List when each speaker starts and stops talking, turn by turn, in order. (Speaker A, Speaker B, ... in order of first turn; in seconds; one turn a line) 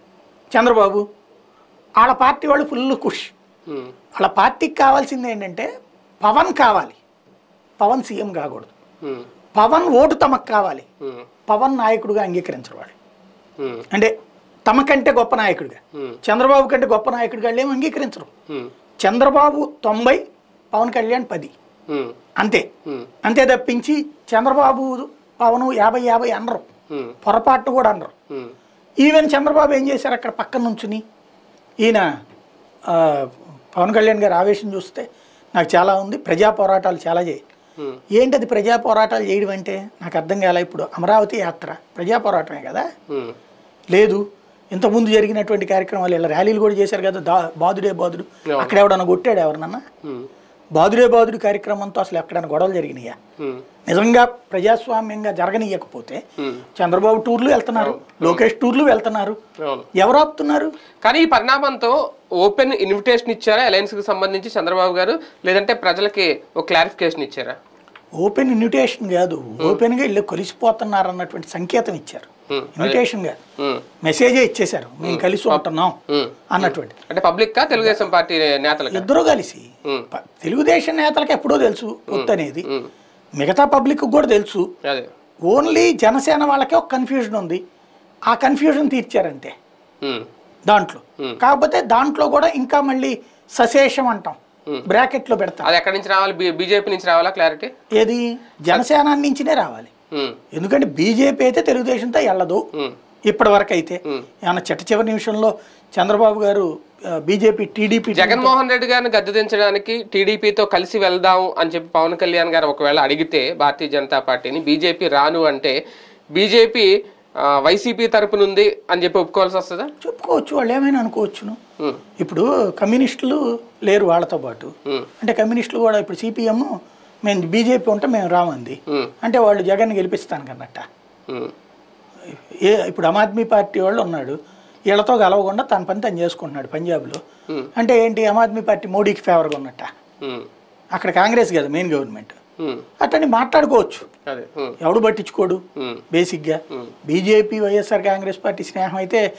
Speaker A: 0.5-1.0
Speaker A: 2.0-3.3
Speaker A: 4.2-5.7
Speaker A: 6.2-7.0
Speaker A: 7.8-8.7
Speaker A: 9.5-10.8
Speaker A: 11.5-12.9
Speaker B: 13.6-13.8
Speaker A: 14.7-18.3
Speaker A: 19.0-20.2
Speaker A: 20.7-21.5
Speaker B: 21.9-22.1
Speaker A: 22.4-22.7
Speaker A: 23.2-26.7
Speaker A: 27.2-28.1
Speaker A: 29.0-31.0
Speaker A: 32.9-37.4
Speaker A: 38.1-42.9
Speaker B: 43.1-43.3
Speaker A: 43.9-44.2
Speaker A: 44.7-49.8
Speaker B: 48.5-48.8
Speaker B: 50.0-50.3
Speaker A: 50.7-53.1
Speaker A: 53.9-56.2
Speaker B: 56.4-56.6
Speaker A: 56.8-59.4
Speaker B: 57.8-58.4
Speaker B: 59.6-59.9
Speaker A: 60.0-60.7
Speaker B: 61.0-67.6
Speaker A: 68.2-73.4
Speaker B: 72.5-73.0
Speaker B: 73.6-73.8
Speaker A: 74.0-76.0
Speaker B: 75.0-79.1
Speaker A: 76.5-77.0
Speaker A: 77.8-78.0
Speaker A: 78.9-82.7
Speaker B: 82.1-82.9
Speaker A: 83.4-84.7
Speaker B: 84.8-85.1
Speaker A: 85.5-87.6
Speaker A: 88.3-89.5
Speaker B: 90.0-90.3
Speaker A: 90.7-95.7
Speaker B: 95.6-97.7
Speaker A: 97.9-99.9
Speaker B: 100.1-100.4
Speaker A: 100.5-102.6
Speaker A: 103.3-108.5
Speaker B: 108.1-115.8
Speaker B: 116.3-116.9
Speaker B: 117.4-119.9
Speaker A: 120.0-121.5
Speaker A: 122.2-126.7
Speaker A: 127.2-130.8
Speaker A: 132.6-134.3
Speaker A: 134.9-137.2
Speaker A: 137.8-139.9
Speaker B: 140.2-140.5
Speaker A: 140.9-142.4
Speaker A: 143.0-144.0
Speaker B: 144.3-144.8
Speaker A: 144.8-145.6
Speaker B: 145.8-146.0
Speaker A: 146.1-149.2